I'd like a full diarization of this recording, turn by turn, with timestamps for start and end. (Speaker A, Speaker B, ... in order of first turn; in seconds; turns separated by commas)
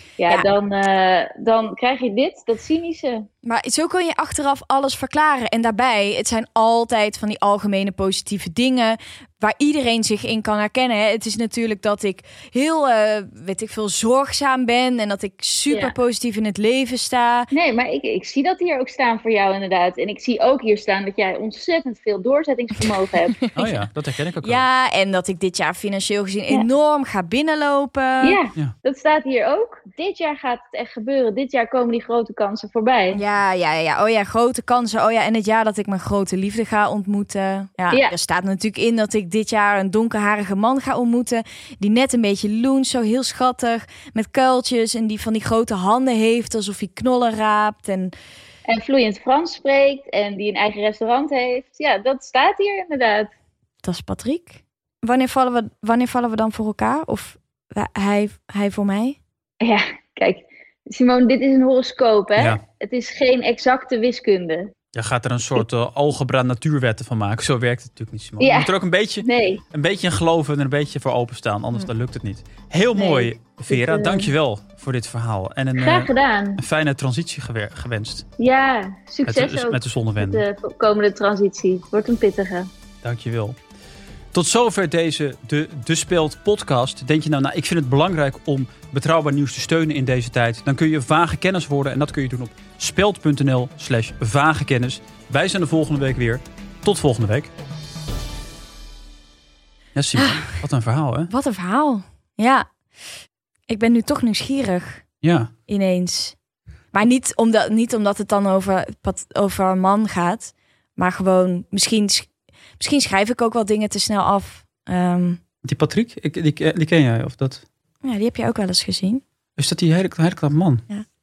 Speaker A: 0.2-3.3, Speaker B: 3.4-17.5, Speaker A: 15.7-15.9, Speaker A: 17.5-23.5, Speaker C: 23.6-24.6, Speaker B: 24.4-28.4, Speaker A: 28.2-33.2, Speaker B: 33.1-48.1, Speaker A: 37.9-38.1, Speaker A: 48.7-53.3, Speaker B: 53.8-59.2, Speaker A: 59.6-64.7, Speaker C: 62.4-62.6, Speaker C: 64.9-78.2, Speaker A: 68.4-69.6, Speaker A: 72.9-74.3, Speaker A: 75.8-76.6, Speaker A: 78.4-82.7, Speaker C: 79.2-80.4, Speaker C: 83.0-83.5, Speaker C: 84.3-97.5, Speaker C: 99.9-101.3, Speaker B: 100.2-100.4, Speaker B: 101.3-102.7, Speaker B: 103.7-105.0, Speaker C: 105.2-105.5, Speaker B: 105.7-106.3, Speaker B: 106.9-115.4, Speaker C: 115.6-117.6, Speaker B: 118.0-119.2, Speaker C: 119.6-120.8